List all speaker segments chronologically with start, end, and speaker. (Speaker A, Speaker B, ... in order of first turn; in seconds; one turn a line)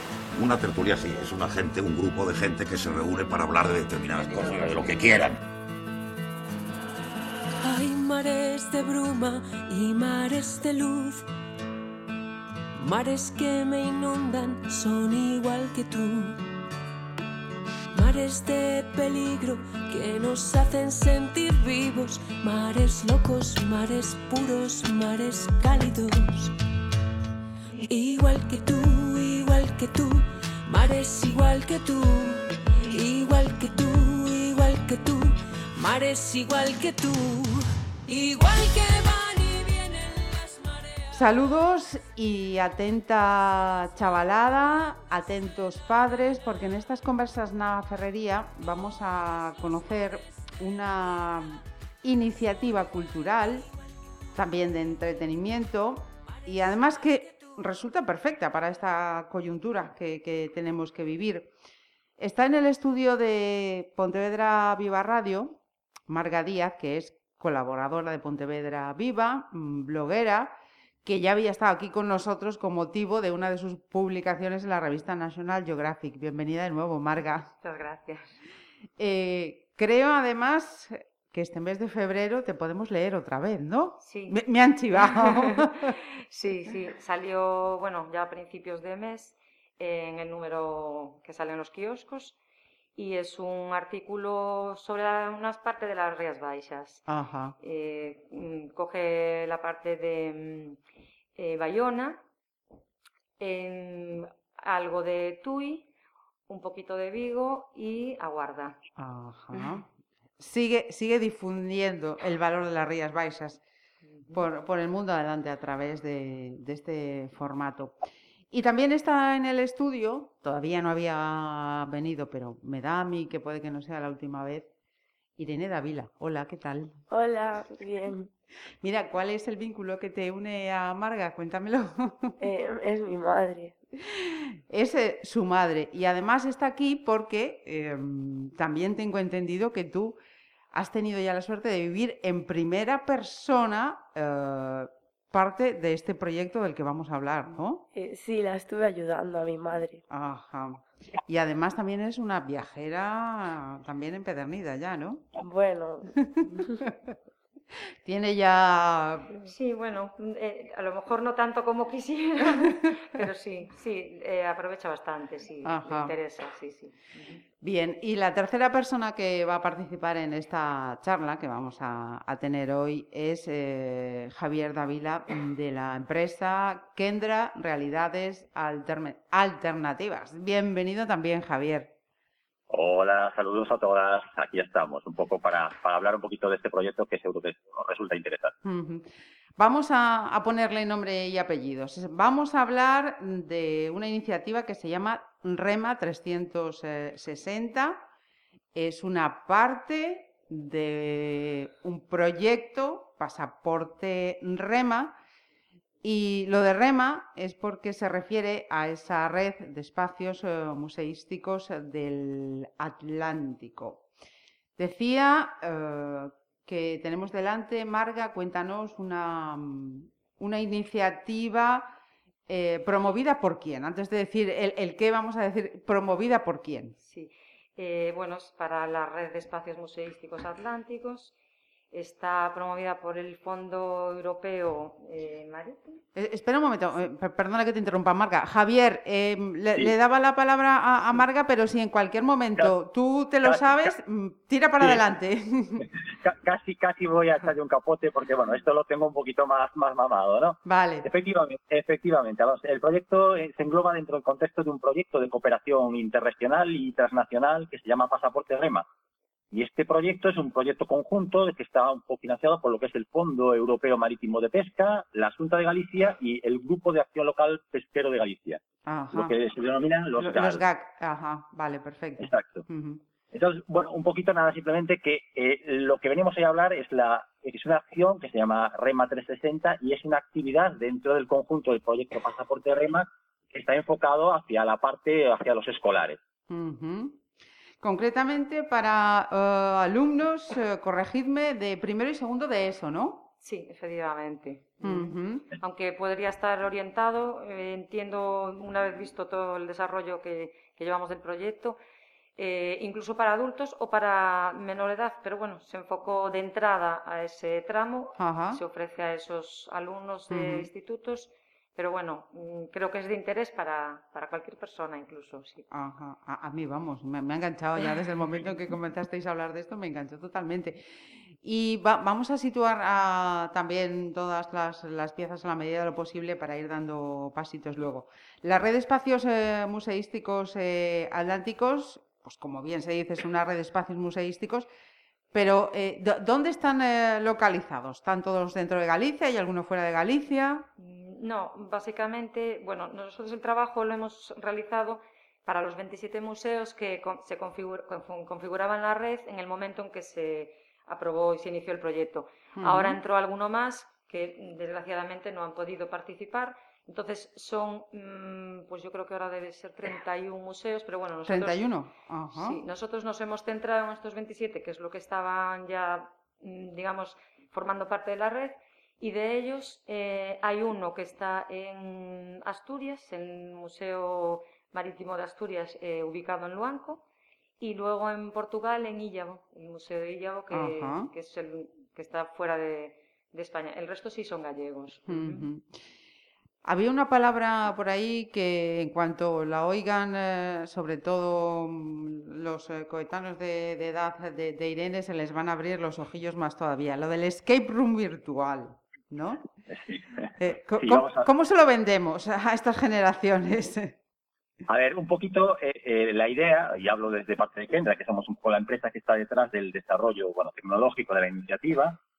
Speaker A: 0.3-5.4
Speaker B: 7.6-11.2
Speaker B: 12.8-16.4
Speaker B: 17.9-26.6
Speaker B: 27.9-41.2
Speaker C: 41.1-53.7
Speaker C: 54.4-61.5
Speaker C: 62.2-77.5
Speaker D: 77.6-78.4
Speaker C: 79.0-85.9
Speaker D: 84.0-84.4
Speaker D: 85.0-92.4
Speaker D: 93.0-97.0
Speaker C: 97.1-97.6
Speaker D: 97.6-100.8
Speaker D: 101.4-102.2
Speaker D: 103.4-105.9
Speaker D: 106.5-108.8
Speaker C: 109.0-109.9
Speaker C: 110.4-113.6
Speaker D: 114.1-114.5
Speaker C: 114.3-124.7
Speaker C: 125.4-127.0
Speaker E: 127.1-128.3
Speaker C: 128.8-132.4
Speaker E: 132.4-133.8
Speaker C: 134.0-140.2
Speaker C: 140.7-147.8
Speaker E: 147.9-150.0
Speaker C: 150.1-155.3
Speaker E: 155.4-156.8
Speaker C: 156.2-157.2
Speaker C: 158.0-159.3
Speaker D: 159.3-167.4
Speaker C: 165.7-166.1
Speaker C: 167.6-181.9
Speaker F: 182.7-188.5
Speaker C: 188.6-198.0
Speaker C: 198.7-205.2
Speaker C: 206.0-214.1
Speaker C: 214.8-221.9
Speaker C: 222.5-227.0
Speaker D: 227.0-231.3
Speaker D: 231.9-236.0
Speaker C: 236.2-245.9
Speaker F: 243.4-243.9
Speaker F: 245.8-258.9
Speaker C: 250.7-251.1
Speaker F: 259.5-268.6
Speaker C: 268.9-269.4
Speaker F: 269.1-270.6
Speaker C: 270.2-273.0
Speaker F: 272.2-272.6
Speaker F: 273.3-286.2
Speaker C: 286.5-287.2
Speaker C: 287.8-293.3
Speaker D: 293.4-301.8
Speaker C: 294.8-295.5
Speaker D: 302.4-315.7
Speaker C: 308.2-308.6
Speaker C: 310.3-310.7
Speaker C: 315.7-334.7
Speaker C: 335.3-340.7
Speaker D: 340.8-361.7
Speaker C: 352.6-353.0
Speaker C: 361.3-362.6
Speaker D: 362.3-377.0
Speaker D: 377.6-385.5
Speaker C: 380.5-381.1
Speaker C: 385.1-385.7
Speaker C: 386.6-399.5
Speaker F: 399.7-401.3
Speaker C: 400.4-404.0
Speaker F: 404.7-412.0